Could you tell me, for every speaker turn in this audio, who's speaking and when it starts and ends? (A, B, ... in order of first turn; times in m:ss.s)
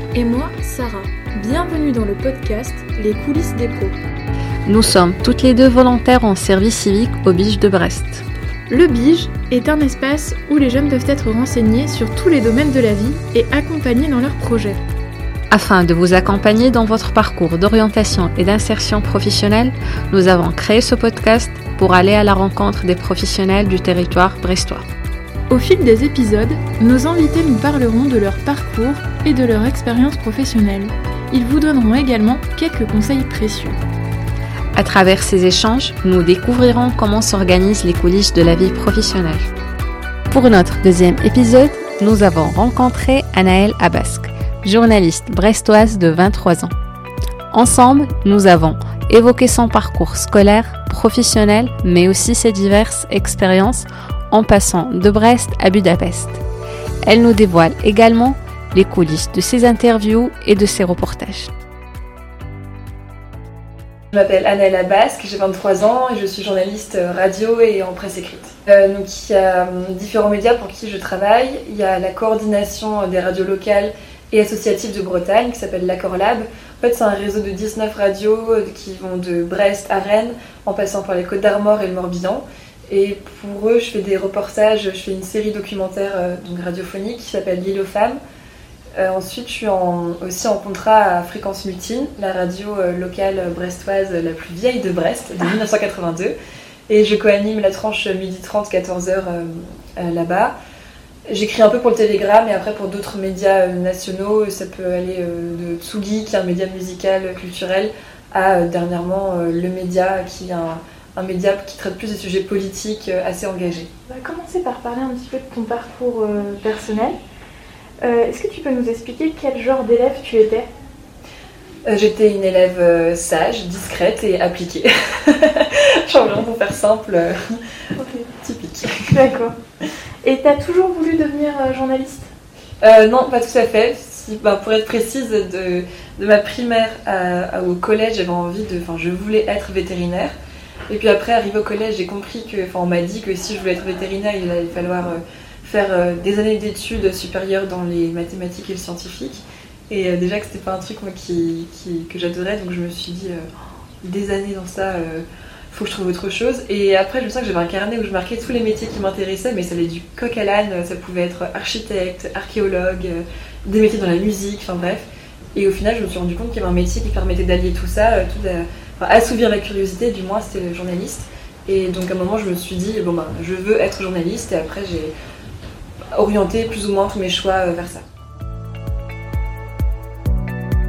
0:00.1-0:04.0 A
0:04.7-0:08.2 B
0:08.7-0:14.8 A
0:15.5-0:24.9 B
0:25.5-0:33.8 A
0:34.8-0:39.5 B
0:40.3-0:46.7 B
0:47.5-0:56.4 B
0:57.0-1:01.5 B
1:04.1-1:28.2 C
1:29.0-1:36.4 C
1:36.9-1:40.5 C
1:41.3-1:53.9 C
1:54.1-1:57.2 A
1:58.0-2:00.7 A
2:01.9-2:07.6 C
2:08.0-2:08.3 A
2:08.3-2:09.2 C
2:09.1-2:09.6 A
2:10.2-2:12.3 A
2:12.8-2:20.3 C
2:20.9-2:33.5 C
2:34.0-2:55.1 C
2:56.1-2:58.0 C